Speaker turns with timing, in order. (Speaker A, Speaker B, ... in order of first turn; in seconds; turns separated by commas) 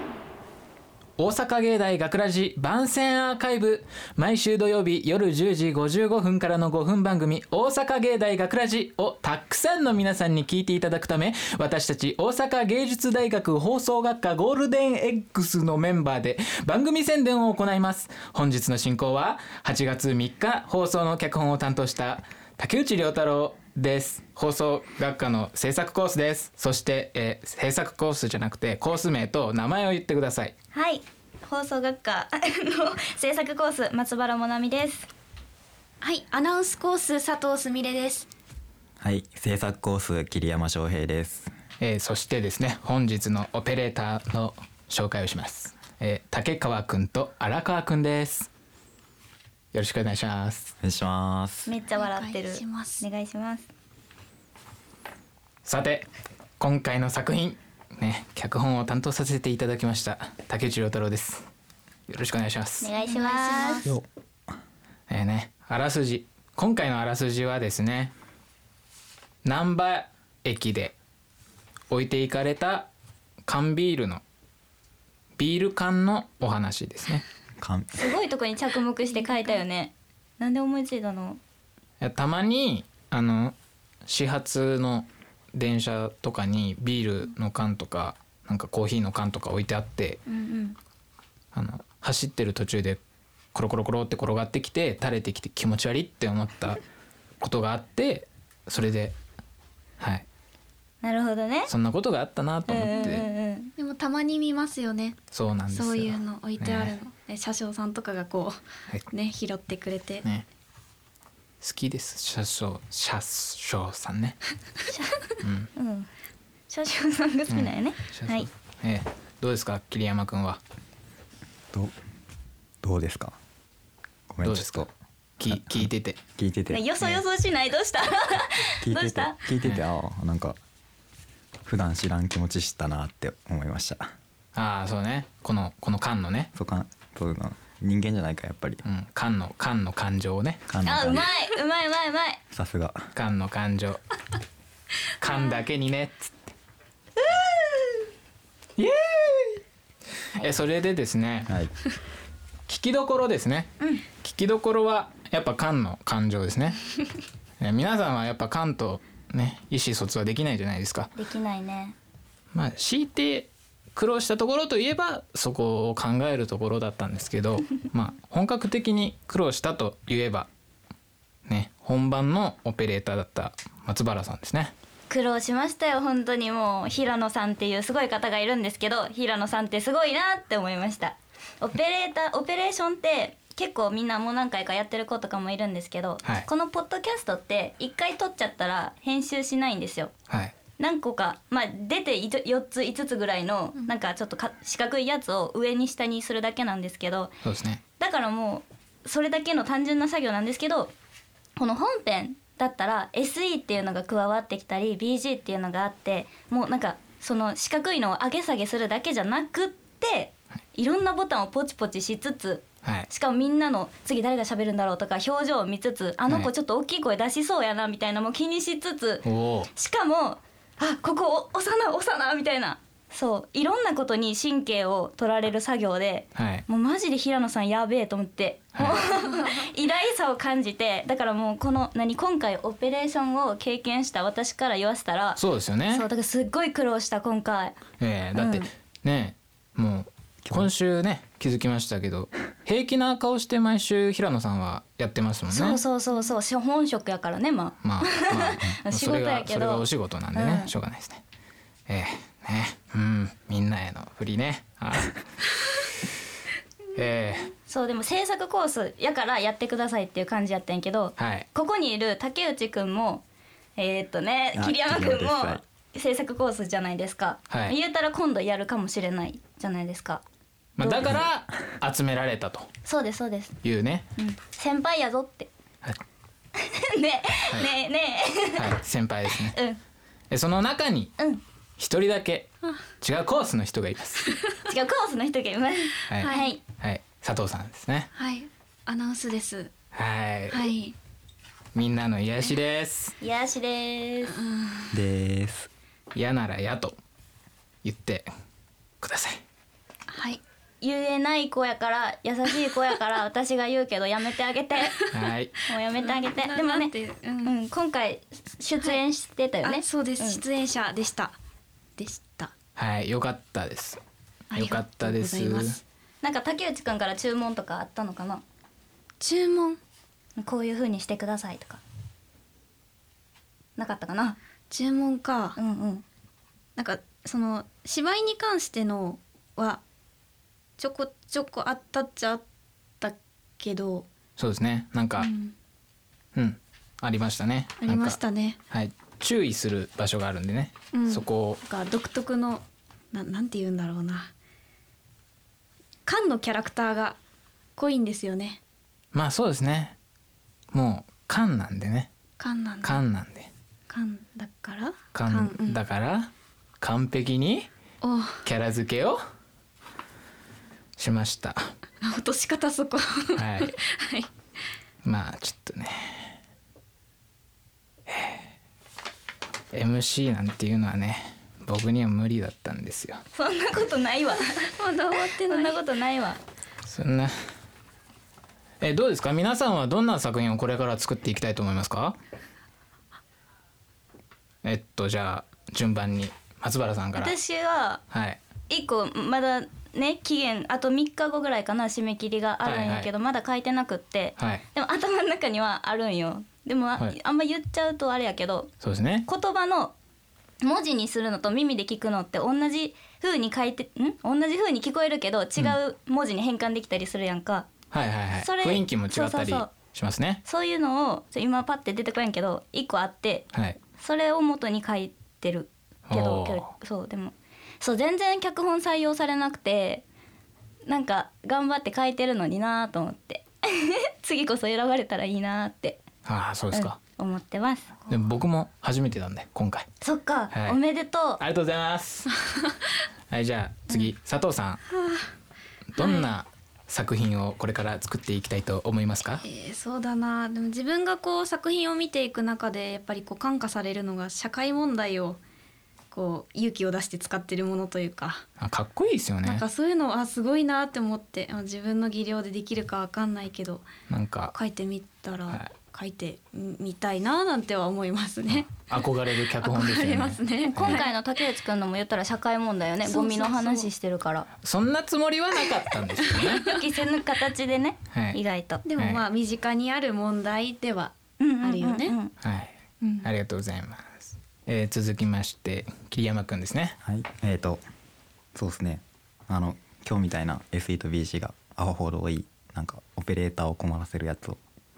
Speaker A: 1.2-30.5, Speaker B: 30.7-35.1, Speaker C: 36.0-38.3, Speaker D: 39.0-41.5, Speaker A: 41.8-48.5, Speaker A: 49.7-50.7, Speaker D: 50.8-51.7, Speaker B: 51.7-53.7, Speaker C: 52.0-53.0, Speaker A: 55.6-56.1, Speaker A: 56.6-61.5, Speaker A: 62.1-62.9, Speaker B: 62.8-63.8, Speaker C: 63.0-64.0, Speaker A: 65.1-68.1, Speaker A: 69.4-70.9, Speaker A: 71.9-72.9, Speaker A: 73.4-74.2, Speaker A: 75.4-77.2, Speaker D: 77.6-78.0, Speaker B: 77.9-81.4, Speaker A: 82.0-83.5, Speaker A: 84.0-90.2, Speaker B: 90.3-90.8, Speaker A: 91.5-93.0, Speaker A: 93.5-96.8, Speaker A: 97.4-99.2, Speaker A: 100.0-100.2, Speaker B: 101.0-101.7, Speaker A: 101.7-103.3, Speaker B: 102.7-103.7, Speaker C: 102.9-105.2, Speaker A: 105.3-107.0, Speaker C: 105.7-108.6, Speaker C: 109.1-110.2, Speaker A: 111.6-114.4, Speaker B: 114.9-115.2, Speaker A: 115.4-115.7, Speaker B: 115.8-116.1, Speaker B: 116.7-118.5, Speaker A: 117.5-120.6, Speaker D: 122.8-123.4, Speaker D: 124.3-124.9, Speaker A: 124.4-126.2, Speaker D: 125.5-125.8, Speaker D: 126.4-126.8, Speaker B: 126.7-129.4, Speaker D: 128.8-130.6, Speaker D: 131.7-134.1, Speaker A: 134.5-136.5, Speaker D: 136.5-138.8, Speaker A: 138.8-140.6, Speaker D: 140.7-141.2, Speaker B: 140.8-142.4, Speaker D: 142.5-143.1, Speaker A: 143.1-144.0, Speaker A: 145.2-146.5, Speaker B: 147.2-147.7, Speaker A: 148.8-149.6, Speaker A: 150.4-151.5, Speaker A: 152.7-156.8, Speaker A: 157.6-161.1, Speaker B: 161.2-161.9, Speaker A: 162.5-170.5, Speaker A: 171.5-174.7, Speaker B: 175.1-190.1, Speaker A: 190.3-190.5, Speaker B: 190.8-197.3, Speaker A: 197.4-197.8, Speaker B: 198.0-200.9, Speaker B: 201.6-237.8, Speaker A: 212.8-213.1, Speaker A: 219.2-219.7, Speaker A: 226.3-226.6, Speaker A: 228.8-229.0, Speaker A: 235.4-236.1, Speaker A: 238.0-245.8, Speaker B: 238.3-238.7, Speaker B: 245.5-250.7, Speaker A: 247.8-251.2, Speaker A: 251.9-255.2, Speaker A: 256.9-257.5, Speaker B: 257.6-263.2, Speaker A: 261.2-261.4, Speaker B: 263.8-270.2, Speaker D: 264.5-265.6, Speaker A: 267.5-267.8, Speaker A: 270.8-272.7, Speaker B: 270.8-271.3, Speaker B: 272.8-273.6, Speaker A: 273.6-274.1, Speaker B: 274.2-275.5, Speaker B: 276.6-278.7, Speaker A: 278.6-279.6, Speaker B: 279.5-279.8, Speaker A: 280.3-281.1, Speaker A: 281.8-282.5, Speaker A: 283.0-284.4, Speaker B: 284.6-286.6, Speaker A: 286.1-288.1, Speaker C: 286.1-286.5, Speaker C: 288.1-289.7, Speaker A: 289.9-290.7, Speaker C: 290.5-290.9, Speaker A: 291.7-293.1, Speaker B: 293.2-294.4, Speaker C: 294.4-294.9, Speaker D: 294.9-295.7, Speaker A: 296.1-296.9, Speaker A: 297.8-298.3, Speaker A: 299.0-299.4, Speaker C: 300.1-300.4, Speaker B: 300.8-305.1, Speaker A: 305.1-305.6, Speaker B: 305.7-310.4, Speaker C: 305.9-307.5, Speaker C: 309.6-311.4, Speaker C: 312.0-312.5, Speaker A: 312.8-314.0, Speaker C: 314.5-315.8, Speaker A: 314.5-315.8, Speaker B: 316.2-318.4, Speaker C: 319.2-319.8, Speaker B: 320.4-321.8, Speaker B: 323.8-324.4, Speaker C: 324.7-325.6, Speaker B: 325.6-326.0, Speaker C: 326.8-329.8, Speaker C: 330.8-332.4, Speaker C: 333.0-334.1, Speaker A: 334.4-335.3, Speaker C: 335.2-335.5, Speaker A: 336.3-338.2, Speaker C: 337.8-338.6, Speaker A: 338.7-341.6, Speaker C: 340.9-344.3, Speaker C: 346.1-347.2, Speaker C: 347.8-348.6, Speaker A: 349.1-349.9, Speaker A: 350.7-352.1, Speaker C: 352.4-353.0, Speaker A: 352.8-353.5, Speaker C: 353.9-355.8, Speaker A: 355.1-357.7, Speaker C: 358.0-358.4, Speaker A: 358.4-359.2, Speaker A: 361.0-361.7, Speaker C: 362.0-364.3, Speaker A: 363.4-363.8, Speaker A: 365.0-366.3, Speaker A: 368.1-368.5, Speaker A: 369.7-373.2, Speaker B: 373.3-374.6, Speaker C: 374.6-375.8, Speaker B: 375.2-376.4, Speaker A: 376.9-377.3, Speaker A: 378.8-382.1, Speaker A: 384.6-387.3, Speaker B: 387.1-388.0, Speaker A: 388.1-388.4, Speaker B: 388.7-398.7, Speaker A: 392.6-393.1, Speaker A: 394.4-394.6, Speaker A: 398.8-399.3, Speaker B: 399.2-399.9, Speaker B: 400.6-407.7, Speaker A: 407.9-410.4, Speaker B: 408.4-409.7, Speaker B: 410.4-420.0, Speaker A: 413.5-413.8, Speaker A: 416.1-416.7, Speaker B: 420.9-426.0, Speaker A: 426.2-427.0, Speaker B: 426.7-428.0, Speaker A: 428.1-429.9, Speaker B: 430.0-431.4, Speaker A: 430.5-430.8, Speaker A: 431.4-432.3, Speaker A: 433.3-434.8, Speaker C: 434.9-435.3, Speaker A: 435.9-439.4, Speaker C: 436.0-436.2, Speaker C: 439.4-445.4, Speaker C: 446.1-448.4, Speaker A: 448.6-449.6, Speaker C: 449.4-453.9, Speaker A: 454.1-454.5, Speaker C: 454.5-458.9, Speaker A: 458.8-461.0, Speaker C: 459.5-461.1, Speaker B: 460.7-464.5, Speaker C: 463.1-463.9, Speaker A: 464.6-466.7, Speaker B: 466.6-468.8, Speaker A: 468.1-468.4, Speaker C: 468.8-472.1, Speaker A: 468.9-469.2, Speaker B: 471.4-472.3, Speaker A: 472.4-477.0, Speaker C: 473.0-473.3, Speaker D: 477.0-477.8, Speaker D: 478.6-484.6